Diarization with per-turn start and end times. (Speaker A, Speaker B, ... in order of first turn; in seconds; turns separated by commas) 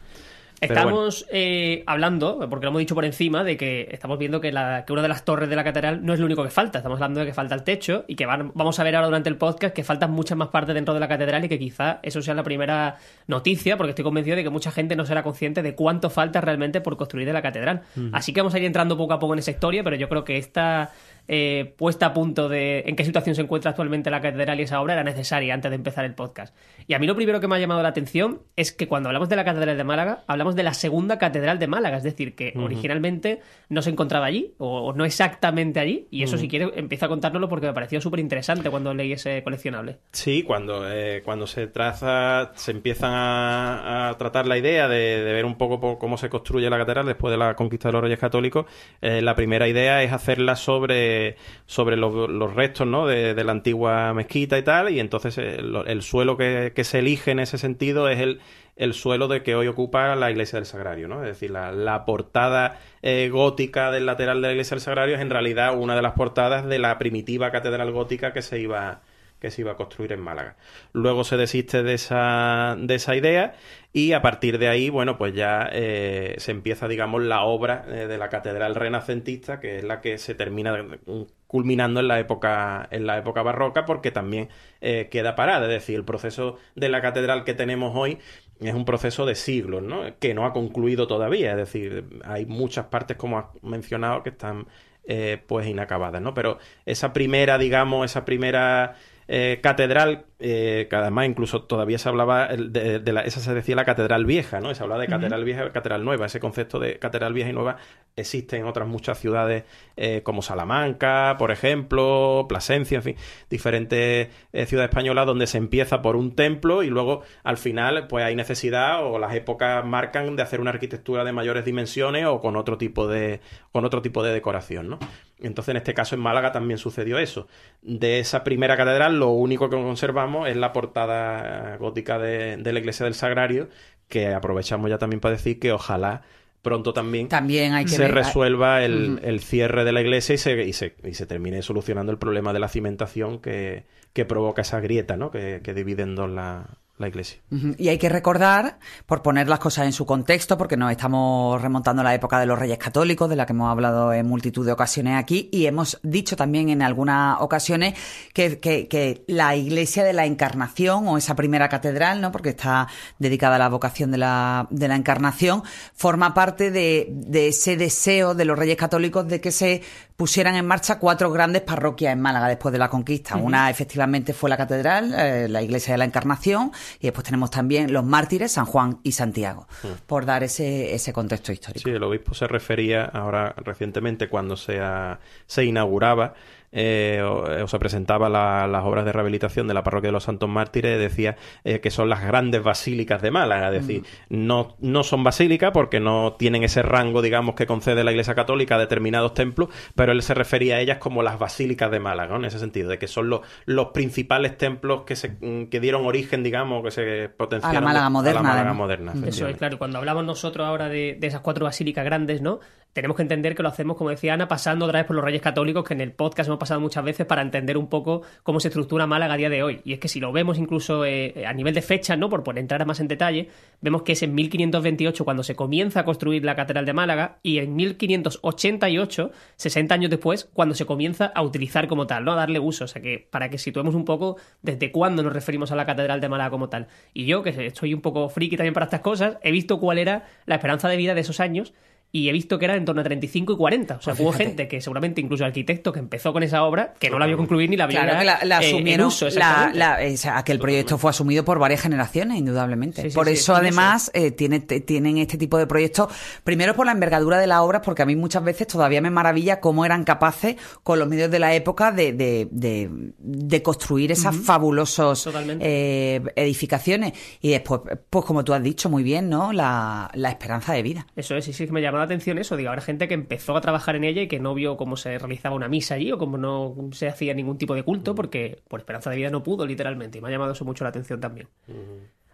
Speaker A: 0.6-40.0, Speaker B: 0.7-1.0, Speaker B: 32.6-32.9, Speaker B: 36.2-36.5, Speaker B: 40.1-137.3, Speaker C: 137.3-138.4, Speaker B: 137.8-147.4, Speaker C: 138.9-139.2, Speaker C: 147.5-181.9, Speaker B: 181.8-209.6, Speaker C: 207.6-209.4, Speaker A: 209.2-249.8, Speaker C: 244.1-244.6, Speaker B: 247.1-247.5, Speaker C: 247.9-271.1, Speaker B: 250.6-251.0, Speaker A: 253.0-253.9, Speaker A: 264.2-264.5, Speaker A: 265.2-265.6, Speaker A: 271.2-281.5, Speaker B: 281.7-282.0